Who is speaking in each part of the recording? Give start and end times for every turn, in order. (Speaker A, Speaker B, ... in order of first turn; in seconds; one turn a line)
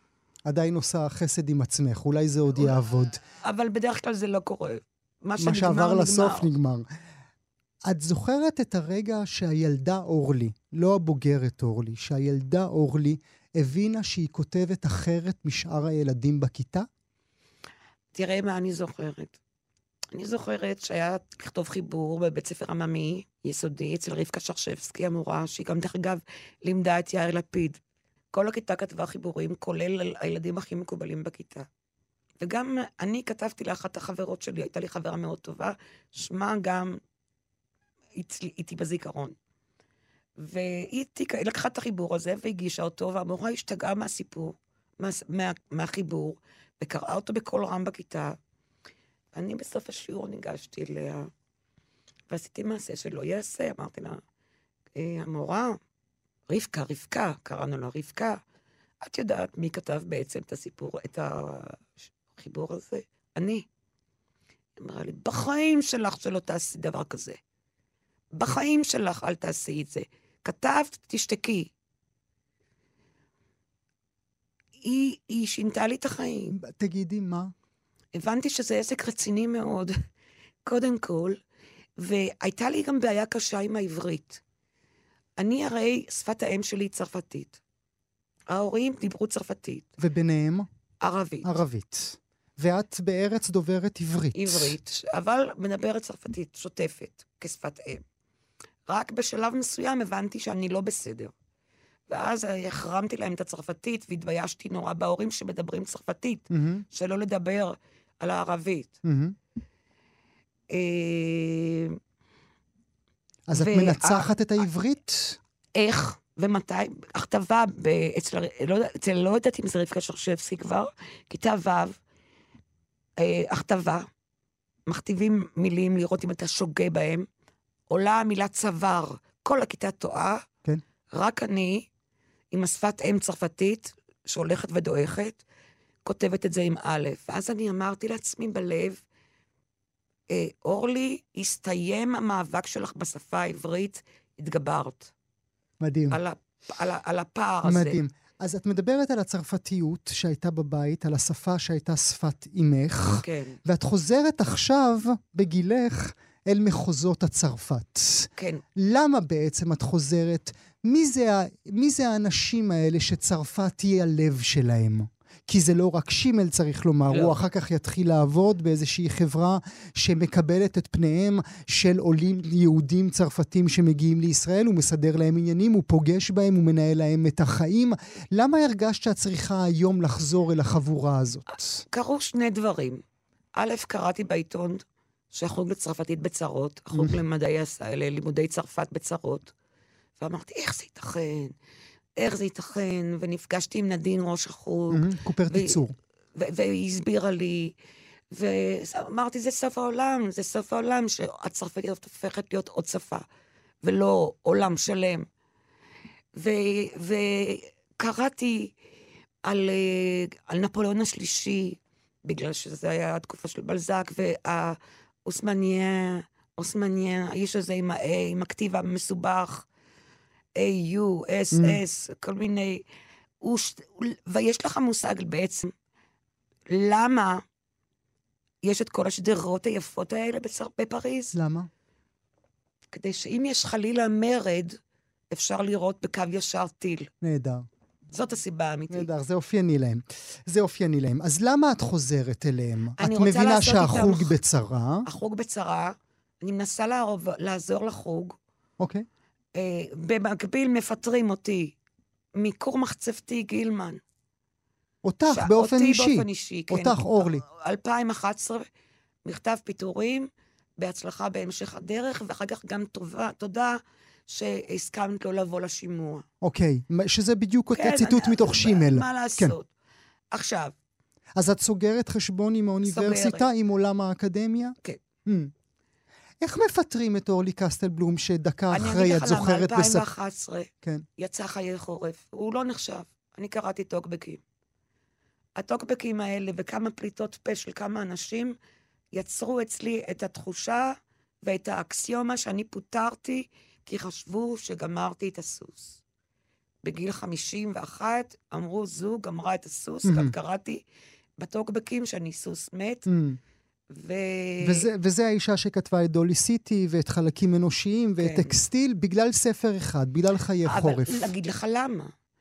Speaker A: 0.4-3.2
Speaker B: 3.3-6.5
Speaker A: 5.4-6.9
Speaker A: 7.8-16.9
Speaker B: 18.1-19.4
Speaker B: 20.1-27.8
Speaker B: 28.3-31.7
Speaker B: 32.4-37.0
Speaker B: 38.1-39.3
Speaker B: 40.4-48.4
Speaker B: 49.3-51.3
Speaker B: 52.3-54.2
Speaker B: 55.0-55.8
Speaker B: 56.5-58.4
Speaker B: 59.0-63.6
Speaker B: 64.8-67.4
Speaker B: 68.3-71.7
Speaker B: 74.8-76.5
Speaker A: 76.5-77.5
Speaker B: 78.1-79.9
Speaker B: 80.6-81.4
Speaker B: 82.0-84.4
Speaker B: 85.4-87.6
Speaker B: 88.5-89.9
Speaker A: 90.0-90.7
Speaker B: 91.0-91.6
Speaker A: 91.4-94.7
Speaker B: 94.3-98.0
Speaker B: 98.9-101.3
Speaker B: 102.1-109.0
Speaker A: 106.5-106.8
Speaker A: 109.0-109.3
Speaker B: 110.7-112.0
Speaker A: 113.5-115.4
Speaker B: 113.5-114.3
Speaker B: 115.7-122.0
Speaker B: 123.2-124.1
Speaker B: 124.9-127.3
Speaker B: 127.9-130.4
Speaker B: 131.1-131.9
Speaker B: 132.5-135.4
Speaker B: 136.0-139.0
Speaker B: 140.3-145.1
Speaker A: 145.8-146.2
Speaker B: 146.1-148.0
Speaker A: 147.6-181.8
Speaker B: 153.1-153.6
Speaker B: 158.4-158.6
Speaker B: 167.1-167.4
Speaker B: 181.5-183.0
Speaker B: 183.6-189.5
Speaker B: 190.2-191.5
Speaker B: 192.2-195.8
Speaker A: 194.9-195.9
Speaker B: 196.3-197.8
Speaker B: 198.3-203.2
Speaker B: 203.8-205.3
Speaker B: 206.3-208.7
Speaker B: 209.4-219.7
Speaker B: 220.6-222.8
Speaker A: 221.5-221.8
Speaker B: 223.4-225.7
Speaker B: 226.7-227.4
Speaker B: 228.6-231.4
Speaker A: 231.3-231.7
Speaker B: 232.9-234.8
Speaker B: 235.3-237.1
Speaker A: 237.2-237.6
Speaker B: 238.1-239.1
Speaker A: 238.9-245.1
Speaker B: 243.0-244.3
Speaker B: 245.0-248.3
Speaker A: 248.8-249.1
Speaker B: 249.5-251.7
Speaker B: 252.3-254.0
Speaker A: 255.0-257.4
Speaker B: 255.3-258.6
Speaker B: 259.2-266.2
Speaker A: 266.4-269.5
Speaker B: 267.7-269.7
Speaker B: 270.3-270.7
Speaker A: 271.4-275.5
Speaker B: 272.8-273.4
Speaker A: 276.4-280.1
Speaker B: 278.7-284.4
Speaker B: 285.6-288.6
Speaker B: 289.1-296.0
Speaker B: 296.8-300.8
Speaker A: 300.0-300.3
Speaker B: 301.4-303.1
Speaker A: 303.1-303.4
Speaker B: 303.9-304.9
Speaker A: 304.6-311.3
Speaker B: 308.2-308.6
Speaker B: 310.6-312.1